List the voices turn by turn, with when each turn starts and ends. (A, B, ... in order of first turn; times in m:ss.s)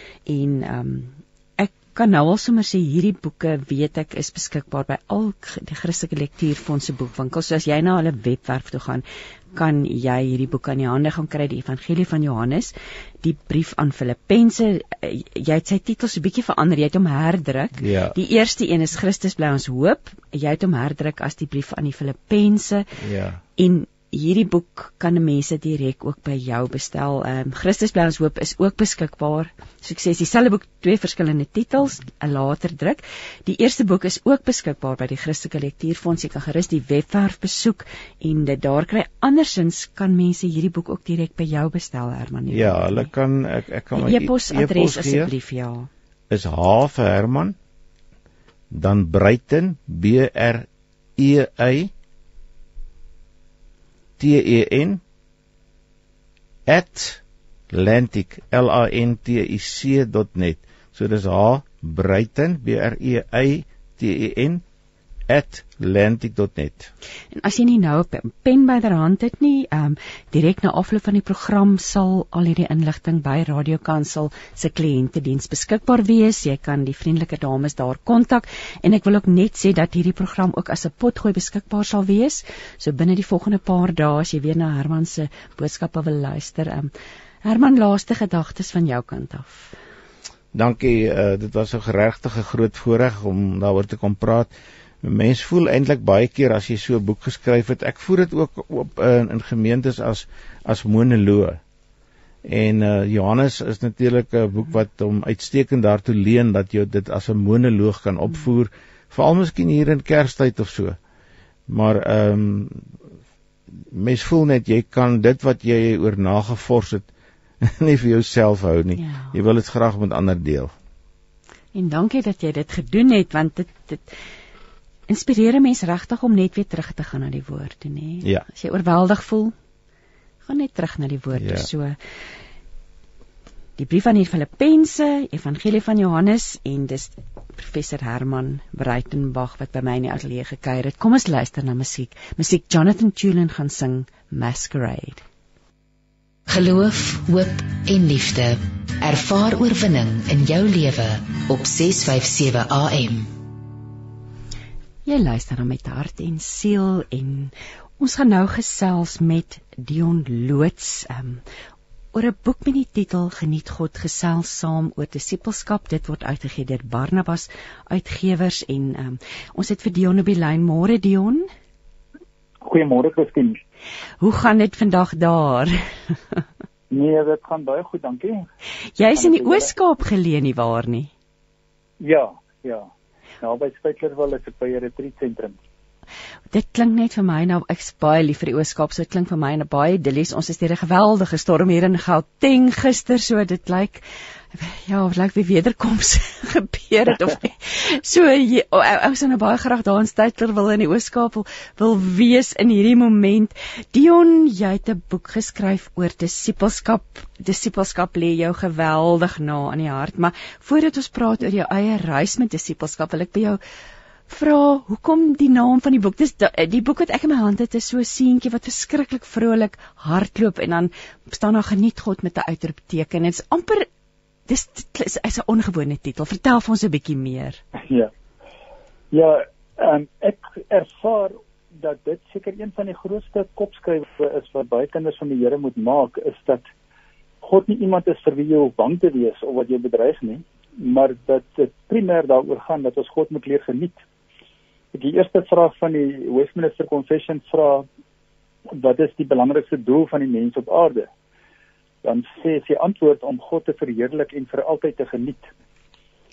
0:00.3-0:22.9 A
0:17.8-0:18.2 B
0:23.0-0:23.4 B
0:23.6-0:43.1 A
0:42.5-0:45.3 B
0:44.0-0:45.9 A
0:46.3-0:47.6 B
0:48.7-0:51.9 B
0:54.2-0:55.0 B
0:56.7-1:04.6 B
1:05.3-1:06.9 B
1:07.3-1:26.9 A
1:27.4-1:29.7 A
1:30.5-1:34.5 B
1:35.0-1:41.6 B
1:42.4-1:51.0 B
1:51.7-1:52.9 B
1:53.7-1:57.1 B
1:57.6-2:00.7 B
1:59.0-1:59.3 A
2:01.7-2:04.1 A
2:05.1-2:09.5 A
2:10.4-2:12.0 A
2:11.4-2:11.7 B
2:13.8-2:25.2 A
2:26.5-2:33.3 C
2:35.0-2:41.4 A
2:42.1-2:51.5 A
2:52.6-2:53.6 D
2:54.2-2:56.4 A
2:56.9-2:58.4 D
2:59.0-3:01.1 A
2:59.1-2:59.7 D
3:02.0-3:02.9 D
3:03.4-3:05.6 D
3:06.5-3:33.6 A
3:34.3-3:43.9 A
3:44.5-3:47.6 A
3:49.1-3:56.6 D
3:57.4-4:04.0 D
4:04.9-4:07.8 D
4:08.7-4:11.1 D
4:12.0-4:15.5 D